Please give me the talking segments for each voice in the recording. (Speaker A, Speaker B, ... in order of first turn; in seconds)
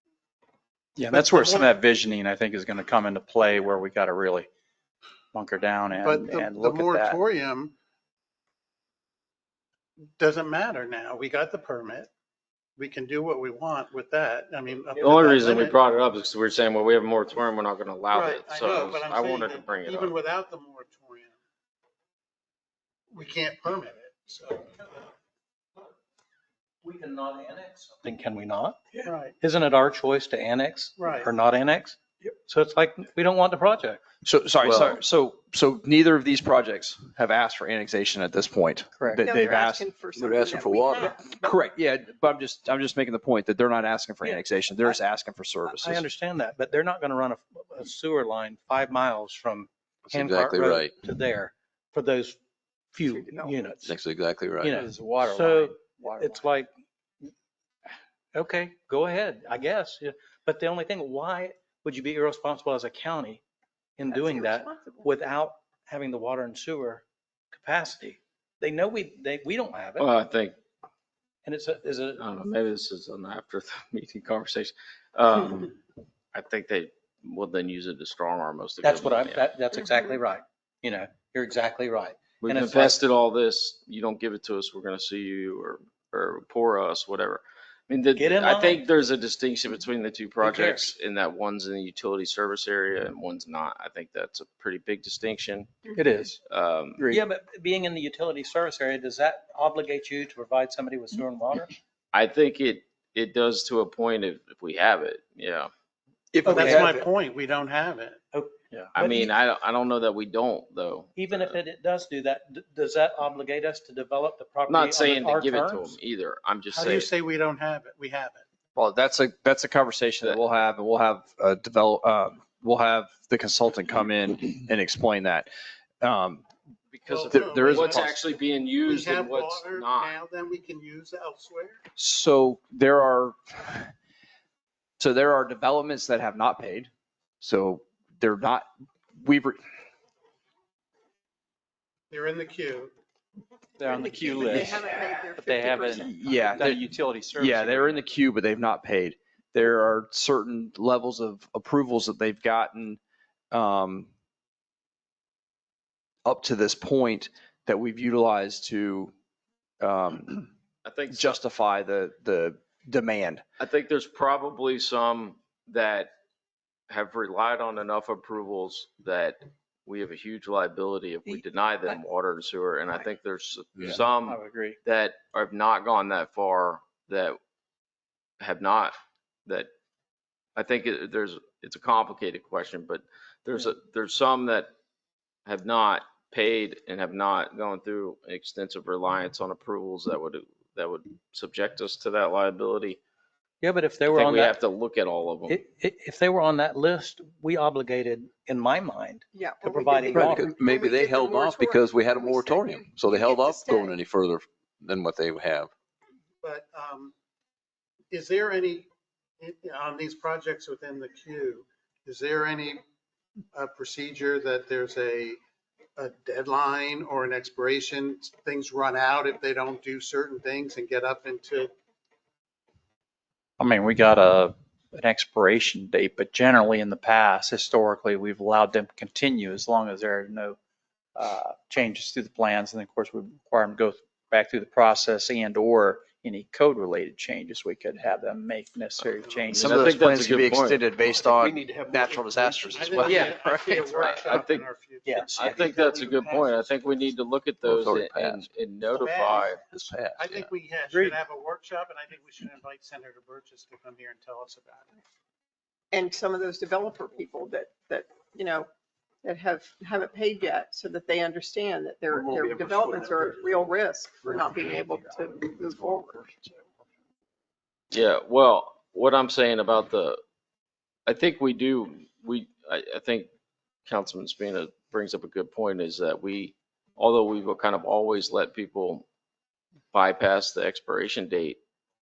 Speaker A: 1.0-4.5, 5.3-7.2, 54.7-56.5, 95.9-96.4, 143.8-148.0, 174.2-174.8, 223.6-230.6, 231.2-240.0
Speaker B: 1.1-1.7, 6.0-7.7, 10.2-12.1, 12.8-15.8, 18.1-21.4, 23.1-25.0, 29.0-29.3, 31.0-31.3, 106.5-108.2, 116.7-118.4, 127.0-128.1, 128.8-131.8, 142.1-142.9, 206.4-207.1, 208.1-208.9, 209.4-212.8, 213.5-215.4, 216.0-221.7, 239.2-239.5, 242.7-246.7, 248.9-249.6, 250.1-255.0
Speaker C: 15.0-20.1, 34.6-35.0, 70.0-70.6, 72.2-75.8, 76.3-79.5, 82.4-95.8, 96.5-97.0, 102.1-105.7, 108.9-111.5, 114.7-117.1, 126.9-130.2, 160.8-161.4, 163.6-166.1, 166.9-177.4, 178.4-179.7, 180.6-184.7, 185.4-193.0, 194.1-195.6, 239.5-240.8, 243.0-244.7, 245.3-249.6, 267.9-270.2, 271.1-273.3, 273.9-279.0, 279.9-281.6
Speaker D: 26.8-34.0, 45.8-52.4, 52.9-53.9, 54.6-56.7, 58.3-63.4, 64.0-70.1, 71.5-72.2, 78.8-83.0, 88.2-88.8, 90.4-90.9, 97.1-101.8, 106.4-106.9, 108.3-109.3, 111.2-116.0, 146.6-146.9, 193.6-194.6, 195.5-200.5, 245.0-246.5, 250.9-251.2
Speaker E: 34.2-39.8, 41.3-46.0, 106.3-107.1, 118.7-125.5, 126.0-126.4, 127.3-128.2, 131.9-133.9, 135.0-136.9, 137.4-139.6, 145.9-146.8, 147.3-153.0, 153.5-154.1, 156.2-159.1, 159.8-160.4, 161.1-163.4, 239.6-244.2
Speaker F: 39.2-41.4, 53.0-53.7, 64.1-65.1, 143.9-146.6, 199.3-204.0, 255.9-258.7, 259.2-266.4
Speaker G: 40.1-41.2, 50.0-50.9, 53.8-54.9, 200.1-205.7, 247.6-248.5, 249.7-250.5